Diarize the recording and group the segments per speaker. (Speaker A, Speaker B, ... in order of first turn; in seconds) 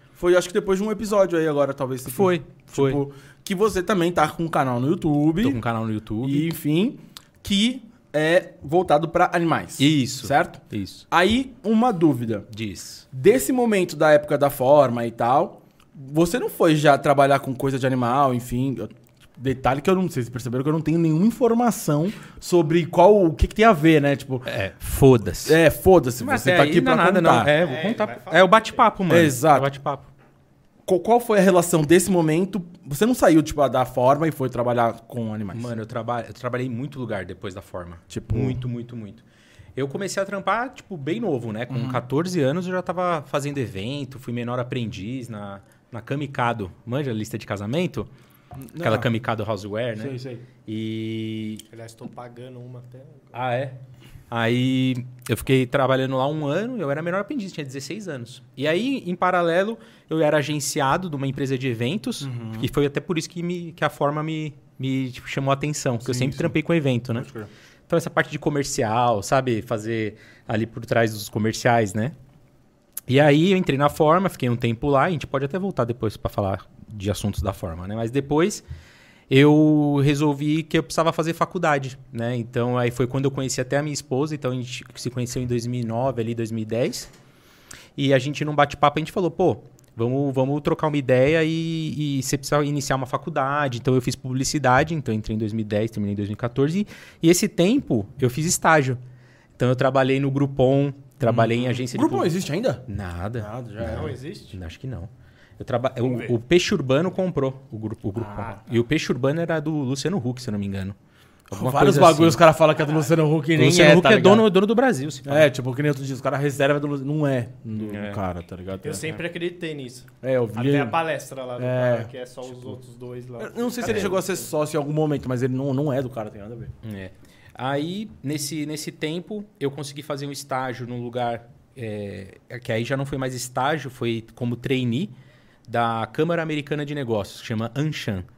Speaker A: 0.2-5.6, 6.2-12.5, 13.1-24.5, 25.4-27.6, 29.1-29.7, 30.9-35.7, 38.1-38.6, 41.7-42.0, 48.5-49.1, 50.0-50.5, 62.2-62.7, 66.0-66.5, 67.1-67.5, 101.2-102.9, 103.4-104.2, 111.5-114.5, 115.2-119.1, 120.2-121.0, 121.6-122.1, 123.4-126.7
Speaker B: 2.1-3.0, 5.4-6.5, 9.8-11.1, 12.5-13.1, 24.5-25.6, 26.2-30.1, 35.5-39.2, 39.8-48.1, 48.8-51.6, 53.3-53.8, 54.3-67.3, 67.9-72.2, 73.1-78.6, 79.3-87.1, 88.0-99.0, 99.6-102.3, 102.9-111.0, 111.5-112.4, 113.5-115.5, 117.7-118.2, 123.8-124.1, 126.8-135.1, 135.7-138.2
Speaker C: 27.6-28.9, 51.7-53.4, 103.8-104.6, 106.0-106.3, 112.8-113.1, 118.8-124.4